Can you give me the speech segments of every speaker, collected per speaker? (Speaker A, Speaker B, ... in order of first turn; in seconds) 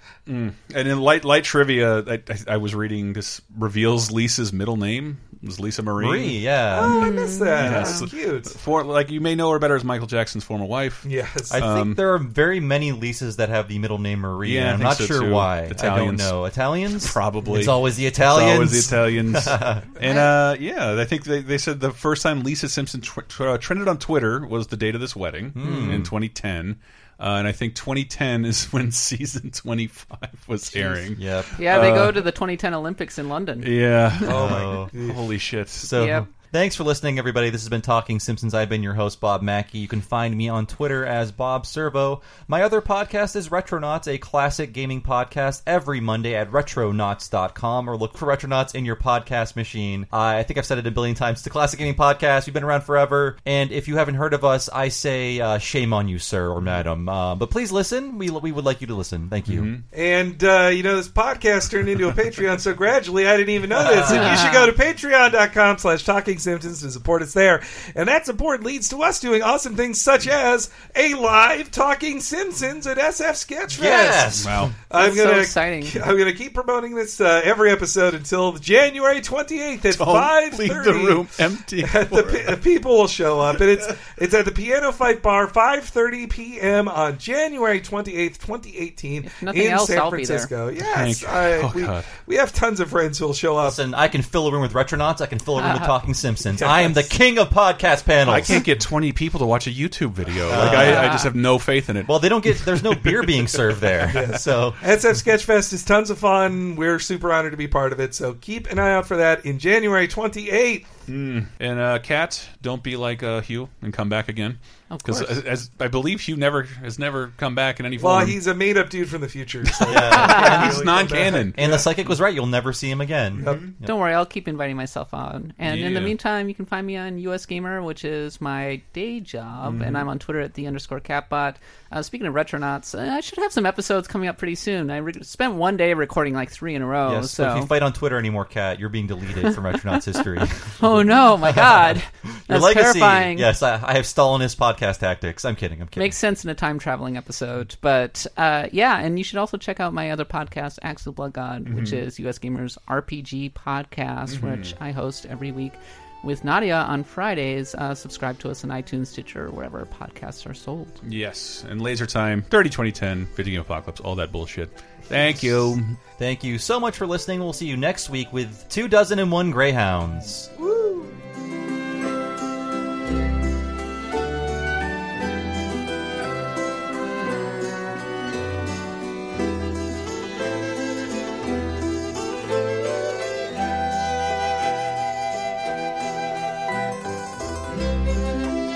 Speaker A: 0.3-6.4, 7.6-12.0, 14.4-16.4, 16.9-32.2, 33.6-35.9, 59.5-59.9, 63.8-64.3, 74.3-74.7, 79.9-82.6, 90.8-92.1, 98.3-102.6, 111.1-118.4, 119.8-121.8, 123.3-123.7, 125.6-126.2, 129.6-130.1, 151.7-152.0, 154.3-154.8, 161.0-165.9
Speaker B: 6.0-7.1, 11.5-19.9, 25.6-26.1, 31.1-31.6, 34.3-34.9, 35.8-59.7, 73.7-74.7, 93.6-98.7, 100.5-101.2, 102.0-104.8, 119.9-120.9, 121.5-123.9, 137.1-146.2, 166.2-170.5
Speaker C: 6.7-8.6, 11.0-11.6, 34.3-35.2, 59.9-74.3, 74.9-81.3, 81.8-93.8, 96.6-97.1, 104.1-110.9, 118.0-121.9, 170.6-171.1
Speaker D: 6.8-8.0, 25.6-25.9, 30.7-34.1, 35.9-36.3, 64.1-64.7, 74.9-76.0, 89.2-90.5, 95.6-95.9, 100.7-101.3, 114.9-115.4, 120.2-120.7, 123.8-137.7, 140.8-143.5, 145.9-161.0